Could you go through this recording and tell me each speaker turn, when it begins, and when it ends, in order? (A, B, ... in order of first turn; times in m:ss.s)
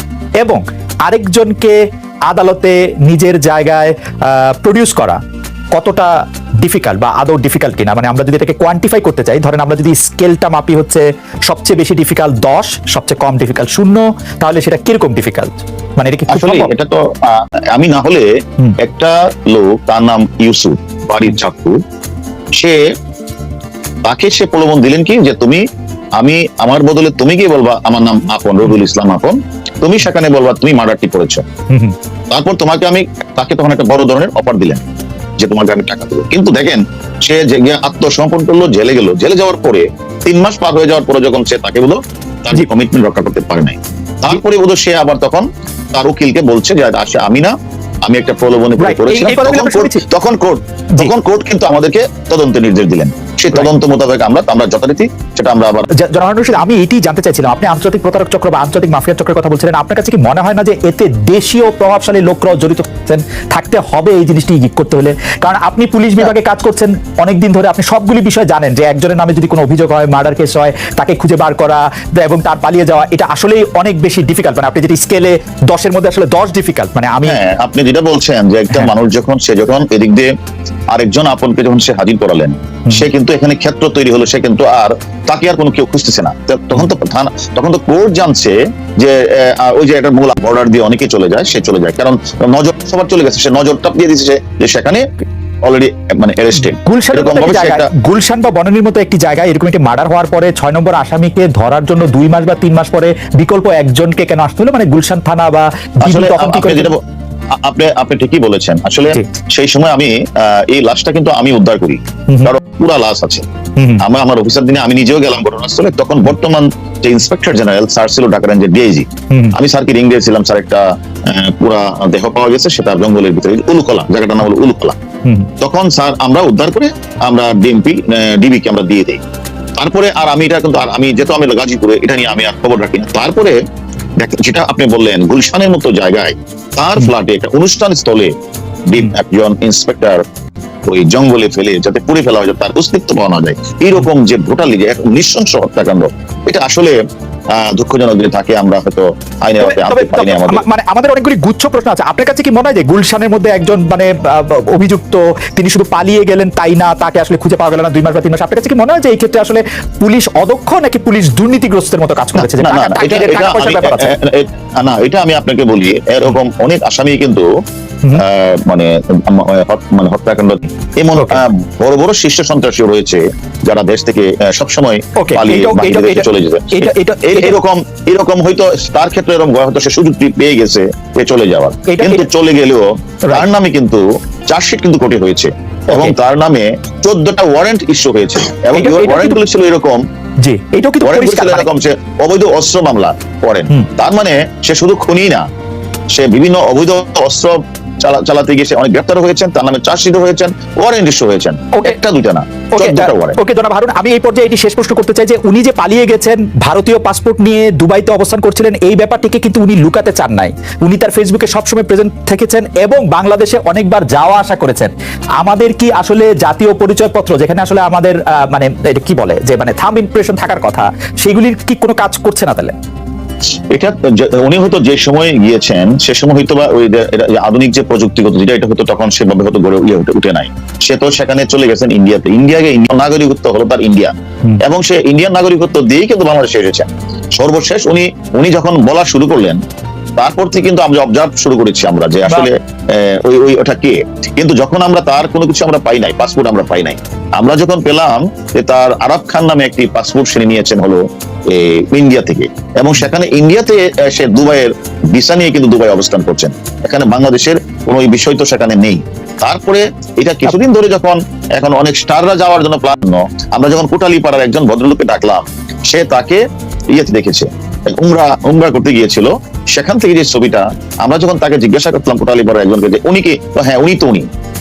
0:00.4-0:05.2 A
0:05.7-0:16.7 A
0:16.3-0:18.3 B
0:18.8-0:21.8 B
0:24.0-0:25.6 B
0:26.2-0:31.4 B
0:31.7-0:31.9 A
0:32.3-0:34.8 B
0:35.4-0:47.5 B
0:48.0-0:55.9 B
0:48.8-0:50.0 A
0:56.0-1:17.4 A
1:17.2-1:20.3 B
1:20.9-1:35.0 B
1:35.6-1:37.9 B
1:36.7-1:46.9 A
1:46.0-1:47.0 B
1:47.6-1:53.4 B
1:53.8-1:54.0 A
1:54.0-2:05.0 B
2:05.2-2:05.5 A
2:05.6-2:09.2 B
2:09.8-2:13.6 B
2:14.2-2:18.3 B
2:18.9-2:20.2 B
2:20.9-2:27.0 B
2:27.5-2:30.6 B
2:29.6-2:44.1 A
2:42.4-2:47.5 B
2:48.1-3:10.0 B
2:51.2-2:51.4 A
2:55.2-2:57.6 A
3:01.9-3:02.3 A
3:08.7-3:09.4 A
3:10.4-3:11.7 A
3:11.0-3:15.4 B
3:16.1-3:23.4 B
3:22.7-3:42.7 A
3:43.7-3:59.6 B
4:00.2-4:26.4 B
4:26.9-4:34.3 B